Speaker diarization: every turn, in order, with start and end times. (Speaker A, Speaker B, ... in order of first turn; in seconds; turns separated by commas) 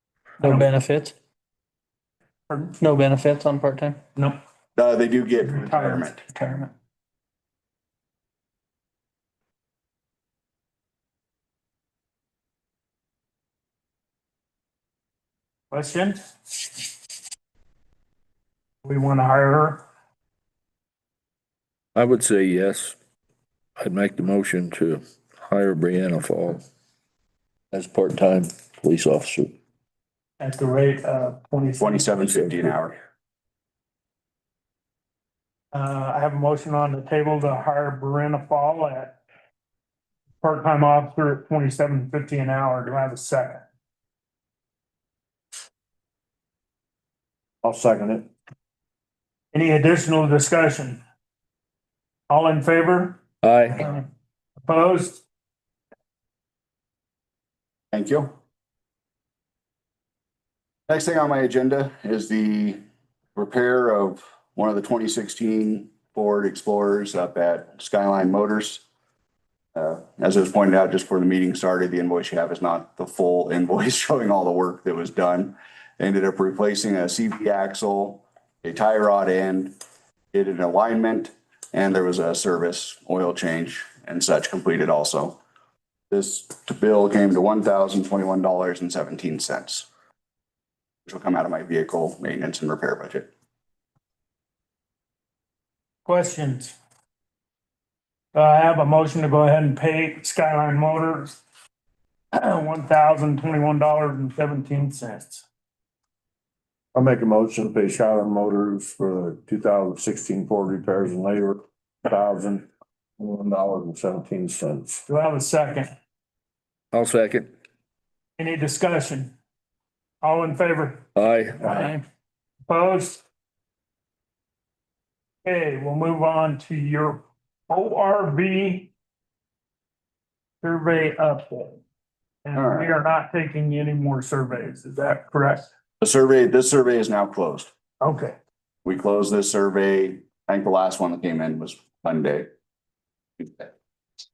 Speaker A: 0.4-1.1, Speaker B: 0.4-0.7, Speaker B: 2.5-2.8, Speaker A: 2.8-4.0, Speaker C: 4.8-6.2, Speaker B: 5.5-6.1, Speaker A: 6.3-6.7, Speaker B: 15.7-16.6, Speaker B: 18.8-19.8, Speaker D: 21.9-22.9, Speaker D: 23.8-26.6, Speaker D: 27.7-29.5, Speaker B: 30.4-32.7, Speaker C: 31.8-33.0, Speaker B: 35.7-39.2, Speaker B: 40.4-43.6, Speaker E: 47.6-48.3, Speaker B: 49.5-51.0, Speaker B: 52.3-53.2, Speaker D: 53.4-53.8, Speaker B: 54.6-55.2, Speaker C: 57.9-58.3, Speaker C: 60.9-62.8, Speaker C: 63.3-68.8, Speaker C: 69.7-79.7, Speaker C: 80.3-85.4, Speaker C: 86.1-89.9, Speaker C: 91.1-93.3, Speaker B: 96.0-96.8, Speaker B: 98.3-101.4, Speaker B: 102.3-105.5, Speaker E: 106.9-112.7, Speaker E: 113.2-115.0, Speaker B: 115.1-115.9, Speaker D: 116.9-117.5, Speaker B: 118.4-119.3, Speaker B: 120.2-121.0, Speaker D: 121.2-121.7, Speaker A: 121.6-122.0, Speaker B: 122.7-123.2, Speaker B: 125.4-128.9, Speaker B: 130.6-131.8, Speaker B: 132.4-135.7, Speaker C: 132.5-132.9, Speaker C: 136.0-137.7, Speaker B: 138.0-138.3, Speaker C: 138.8-142.5, Speaker C: 143.4-143.7